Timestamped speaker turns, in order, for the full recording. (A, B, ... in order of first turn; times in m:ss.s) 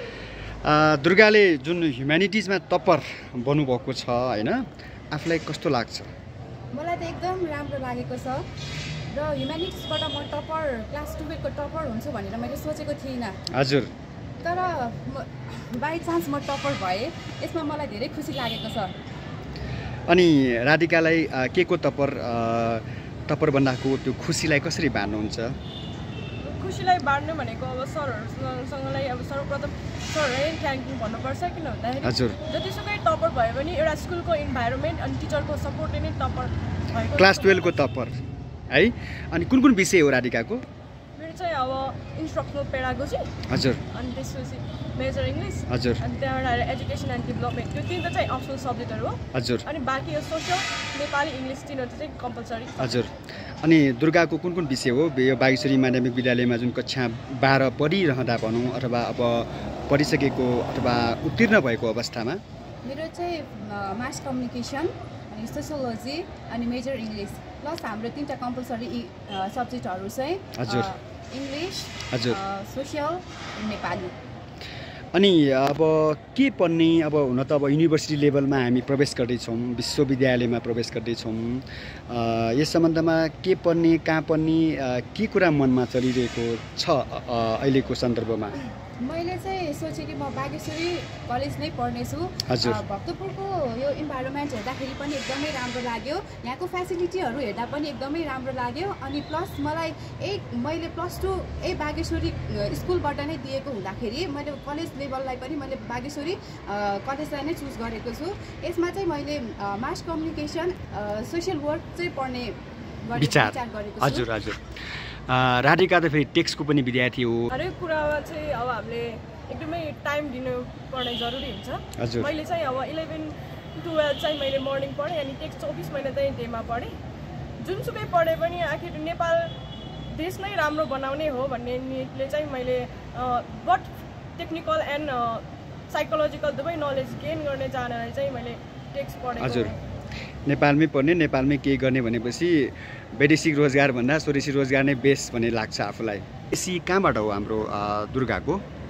0:00.6-0:06.1 A
0:06.7-0:08.4 B
0:09.1-0:13.4 B
0:13.5-0:13.9 A
0:14.4-0:18.9 B
0:20.1-0:25.6 A
0:26.4-0:37.8 C
0:32.0-0:32.4 A
0:37.1-0:38.1 A
0:38.7-0:40.6 A
0:41.2-0:43.3 C
0:43.5-0:43.8 A
0:43.9-0:53.0 C
0:45.7-0:46.0 A
0:49.3-0:49.6 A
0:52.8-1:02.4 A
1:02.8-1:14.1 B
1:10.6-1:10.9 A
1:12.1-1:12.4 A
1:15.1-1:28.6 A
1:29.0-1:54.3 B
1:32.5-1:32.8 A
1:53.1-1:54.6 A
1:55.3-1:57.5 A
1:57.5-2:06.9 C
2:02.0-2:02.3 A
2:07.6-2:09.5 C
2:10.1-2:19.8 C
2:19.4-2:19.7 A
2:20.5-2:28.6 A